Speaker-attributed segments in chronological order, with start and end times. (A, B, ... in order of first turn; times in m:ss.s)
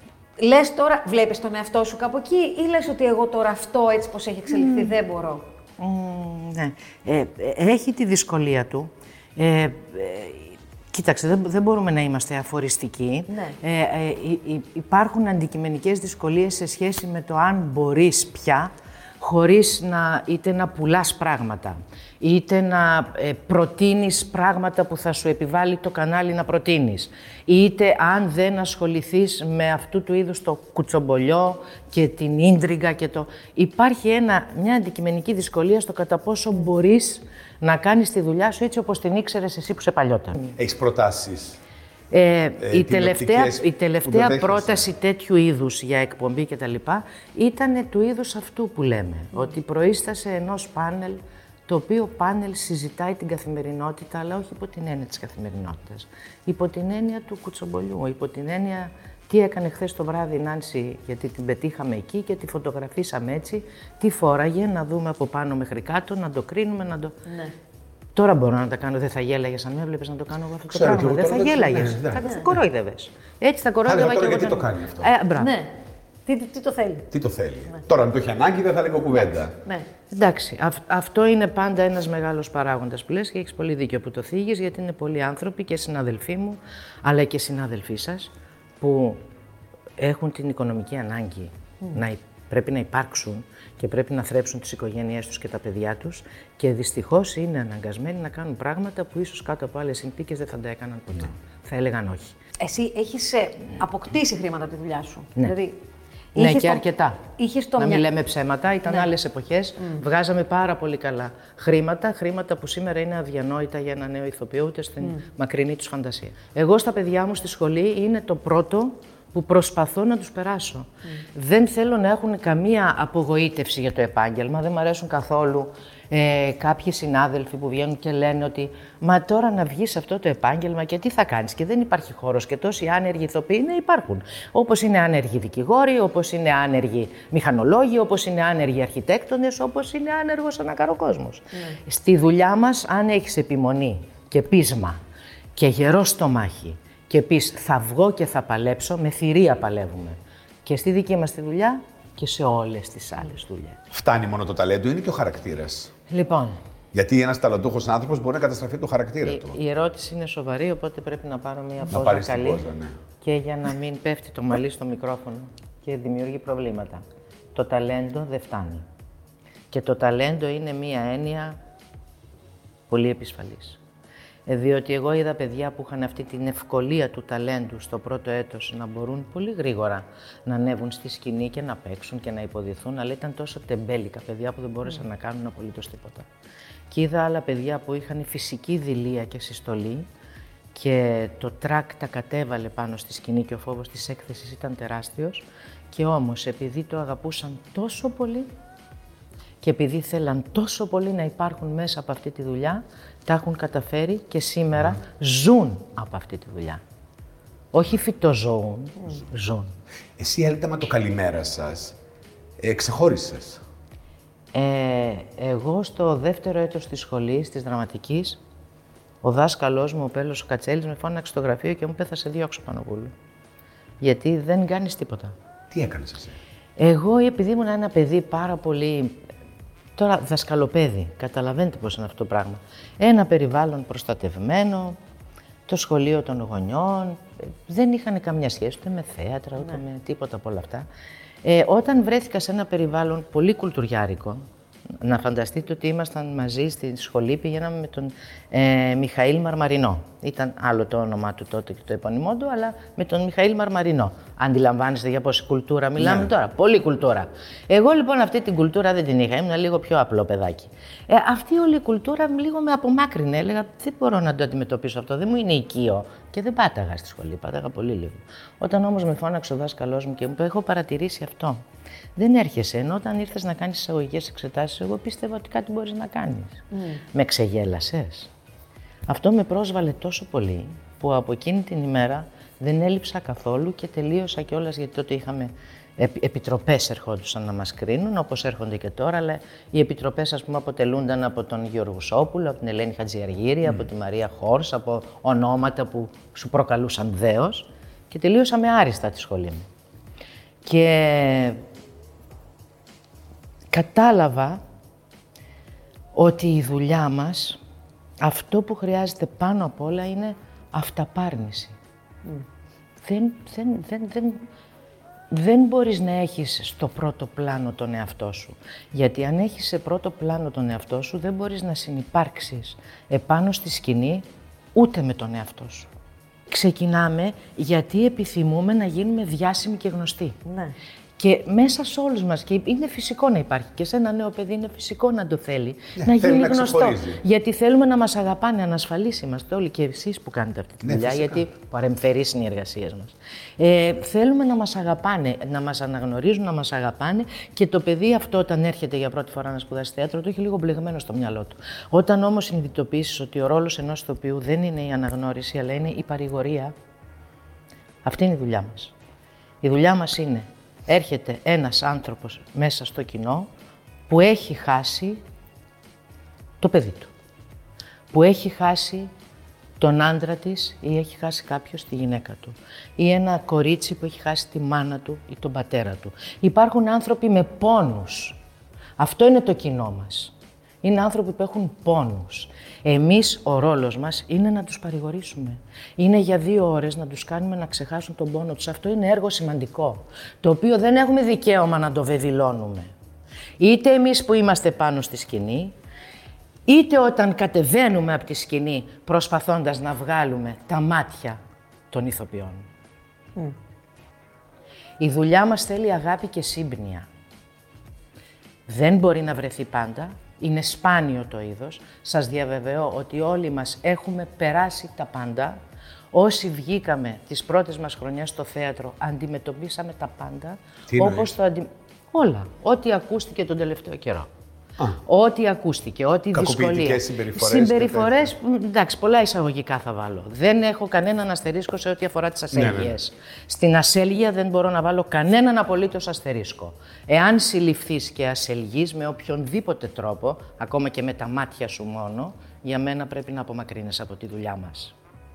0:00.4-0:05.4 A
0:04.5-0:04.9 B
0:05.8-0:40.6 B
0:13.3-0:13.6 A
0:40.6-0:41.6 C
0:42.1-1:07.1 B
0:42.6-0:44.8 C
1:07.3-1:07.5 A
1:08.1-1:15.5 B
1:10.7-1:12.5 C
1:13.8-1:15.1 C
1:15.4-1:15.7 A
1:16.2-1:17.1 A
1:17.1-1:19.5 C
1:20.1-1:28.3 B
1:28.8-1:29.2 B
1:30.0-1:42.4 B
1:42.6-1:45.8 A
1:46.3-1:48.0 A
1:46.4-1:47.2 B
1:47.8-2:25.0 B
2:25.5-2:33.8 B
2:33.9-2:35.9 C
2:36.1-2:36.6 B
2:36.9-2:39.6 C
2:39.2-2:42.6 B
2:41.9-2:42.9 C
2:43.2-2:47.0 B
2:47.5-2:48.8 B
2:49.7-2:51.6 B
2:52.9-2:53.8 B
2:54.5-3:06.3 B
3:06.9-3:10.1 B
3:10.7-3:18.5 B
3:19.6-3:26.8 B
3:27.7-3:29.7 B
3:30.2-3:32.0 C
3:32.6-3:33.6 C
3:34.5-3:38.4 B
3:39.2-3:43.1 B
3:44.0-3:45.3 B
3:45.7-3:46.4 C
3:46.8-3:49.2 B
3:50.0-3:55.0 B
3:55.7-4:00.8 B
4:01.4-4:04.4 B
4:05.0-4:31.6 B
4:16.0-4:16.3 C
4:32.2-4:36.6 B
4:36.7-4:37.0 A
4:37.1-4:38.3 B
4:39.1-4:59.7 B
5:00.6-5:01.6 B
5:03.7-5:04.6 B
5:06.1-5:07.6 B
5:08.2-5:11.8 B
5:13.0-5:14.4 B
5:15.3-5:25.9 B
5:26.5-5:30.4 B
5:30.4-5:30.7 A
5:31.2-5:56.7 B
5:36.0-5:37.2 C
5:40.8-5:41.4 C
5:58.0-5:58.9 B
5:59.6-6:03.5 B
6:04.1-6:05.2 B
6:06.6-6:07.1 B
6:08.1-6:09.1 B
6:09.8-6:18.4 B
6:19.0-6:32.9 B
6:33.6-6:35.7 B
6:36.6-6:41.4 B
6:41.9-6:42.6 B
6:45.0-6:47.0 B
6:48.7-6:55.6 B
6:56.1-7:04.3 B
7:00.9-7:01.3 C
7:05.0-7:24.9 B
7:06.3-7:08.3 C
7:12.5-7:12.9 C